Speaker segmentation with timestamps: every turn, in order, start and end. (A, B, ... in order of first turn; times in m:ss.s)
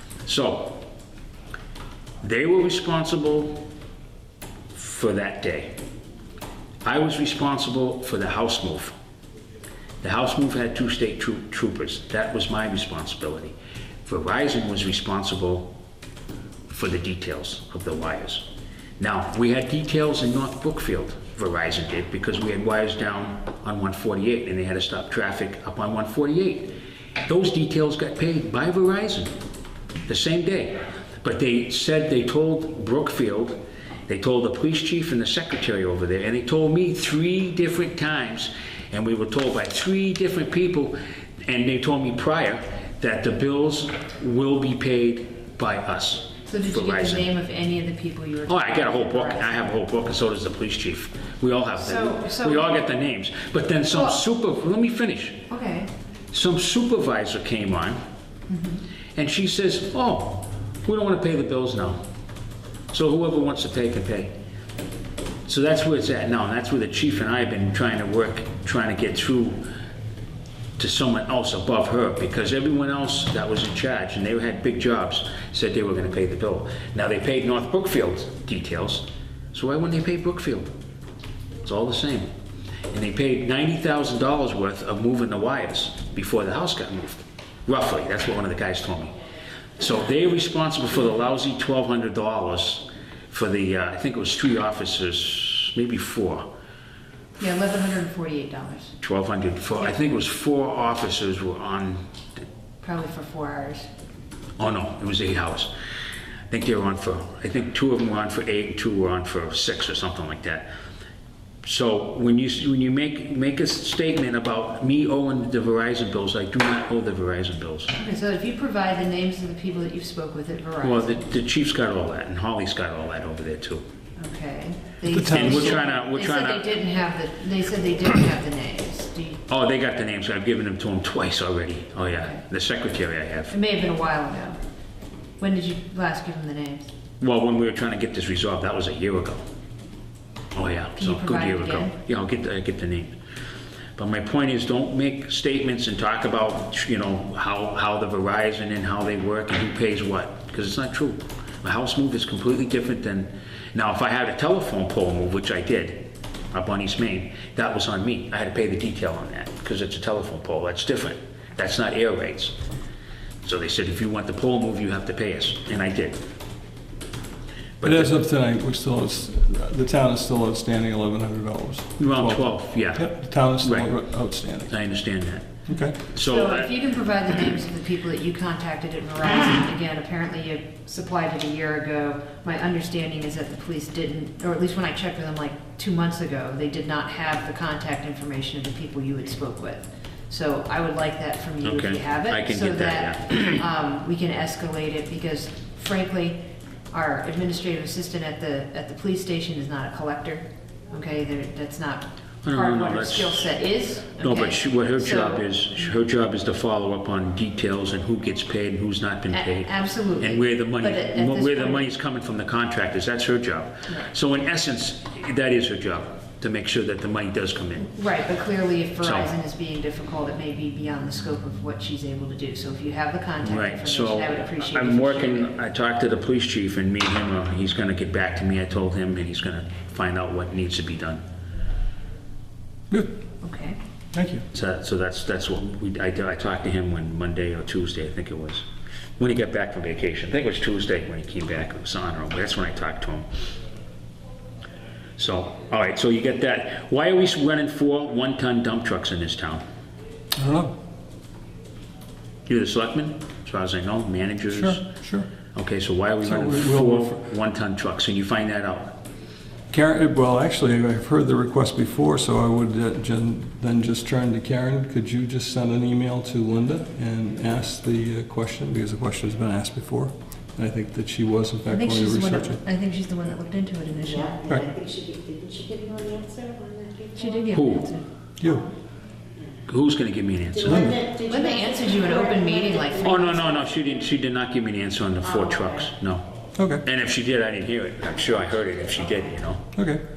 0:00.2-0:00.9 A
0:02.2-0:03.6 A
0:04.7-0:05.8 A
0:06.8-0:09.0 A
0:10.0-0:15.8 A
0:16.7-0:18.4 A
0:19.0-0:29.4 A
0:30.1-0:47.3 A
0:46.5-0:49.6 B
0:48.5-0:55.5 A
0:51.8-0:52.7 B
0:55.5-0:55.9 B
0:56.3-0:58.0 A
0:58.5-0:58.8 B
0:59.2-1:02.0 A
1:02.9-1:04.4 A
1:05.5-1:09.7 A
1:10.8-1:20.7 A
1:21.6-1:22.3 A
1:22.9-1:29.2 A
1:29.8-1:36.5 A
1:37.4-1:39.0 B
1:39.0-1:42.0 A
1:42.8-1:43.9 B
1:44.6-1:45.7 A
1:46.5-1:50.7 A
1:51.6-1:57.9 A
1:58.0-2:01.2 B
2:00.8-2:03.8 A
2:04.2-2:09.4 B
2:05.1-2:05.8 C
2:05.3-2:06.7 A
2:09.5-2:13.6 A
2:13.5-2:14.6 B
2:15.4-2:16.9 B
2:17.2-2:19.4 A
2:20.5-2:23.2 A
2:21.0-2:21.9 B
2:24.0-2:42.6 A
2:43.4-2:46.2 A
2:47.8-2:48.2 A
2:47.8-2:54.7 C
2:52.0-2:53.9 A
2:54.7-2:55.5 A
2:55.7-2:56.0 C
2:56.1-2:56.7 A
2:56.2-3:16.4 B
3:11.6-3:13.6 A
3:16.9-3:25.5 B
3:22.4-3:23.4 A
3:24.2-3:37.9 A
3:29.3-3:31.8 B
3:38.0-3:45.5 B
3:39.0-3:39.3 A
3:43.4-3:51.2 A
3:53.4-3:53.8 B
3:54.1-3:54.4 C
3:54.5-3:58.6 A
3:59.2-4:03.3 A
4:05.2-4:09.6 A
4:10.4-4:10.7 C
4:12.5-4:14.9 A
4:14.5-4:15.3 C
4:15.5-4:19.0 A
4:16.2-4:17.2 C
4:19.7-4:32.6 C
4:31.7-4:34.4 B
4:34.3-4:37.3 D
4:37.2-4:38.1 B
4:37.5-4:37.9 A
4:38.4-4:38.7 C
4:39.7-4:41.0 A
4:40.6-4:43.0 D
4:40.7-4:41.0 C
4:41.2-4:43.4 B
4:43.0-4:46.3 A
4:46.6-4:46.8 C
4:46.8-4:49.7 A
4:49.8-4:50.0 C